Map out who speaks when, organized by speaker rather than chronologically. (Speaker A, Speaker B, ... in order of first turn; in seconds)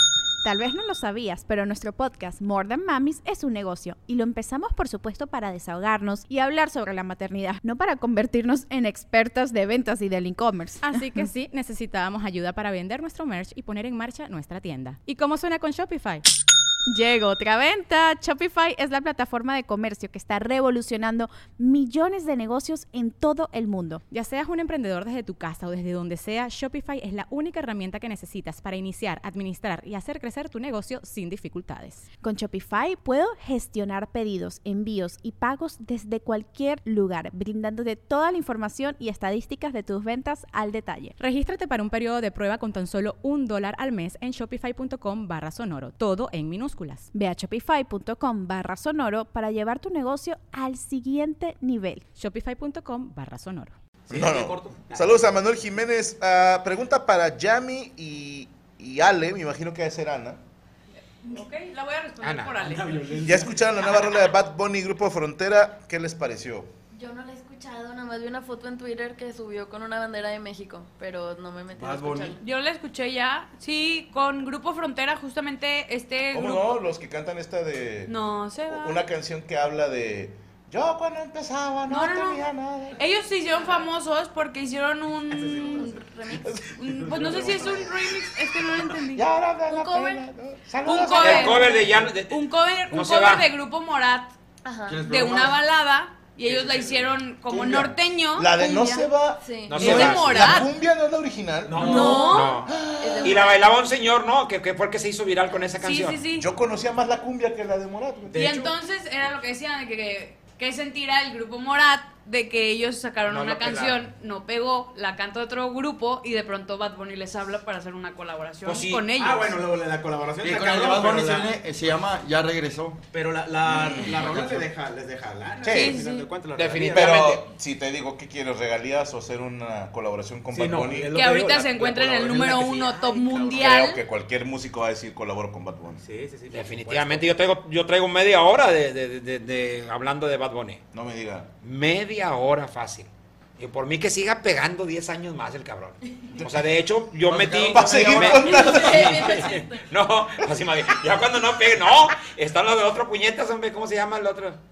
Speaker A: 0.4-11.3, 16.9-24.0, 32.2-41.1, 47.1-52.0
Speaker B: 10.8-16.2, 24.1-32.0, 41.2-47.1, 52.1-53.7
Speaker C: 54.1-55.2, 62.6-63.6, 85.3-86.0, 86.8-87.9, 96.4-97.2, 101.7-102.3, 108.3-108.7, 119.2-121.6, 123.1-127.3, 130.5-133.7, 136.0-137.3
Speaker D: 54.1-60.4, 63.2-66.7, 76.3-78.2, 78.7-83.0, 86.4-88.2, 89.1-91.8, 97.5-103.5, 106.3-108.6, 123.7-124.2, 125.6-126.0, 126.9-131.2, 133.5-136.0, 140.9-141.5, 146.3-146.6, 147.7-149.5
Speaker E: 61.2-63.3, 72.4-76.8, 78.1-79.0, 81.9-82.4, 83.0-86.0, 86.7-89.2, 90.8-94.3, 95.0-99.1, 99.7-100.7, 101.8-102.7, 105.8-106.5, 108.3-119.5, 125.6-126.3, 131.1-134.0
Speaker F: 62.2-62.6, 91.2-93.5, 99.7-100.6, 101.7-102.7, 103.2-106.2, 113.2-114.1, 118.6-119.1, 126.5-127.5, 136.5-140.8, 141.6-154.6
Speaker G: 66.9-72.4, 85.7-86.6, 89.7-90.2, 94.6-95.0, 99.4-100.0, 101.8-103.6, 148.3-149.8
Speaker H: 71.7-72.4, 94.9-95.6, 120.4-123.0, 123.6-124.7, 147.2-148.7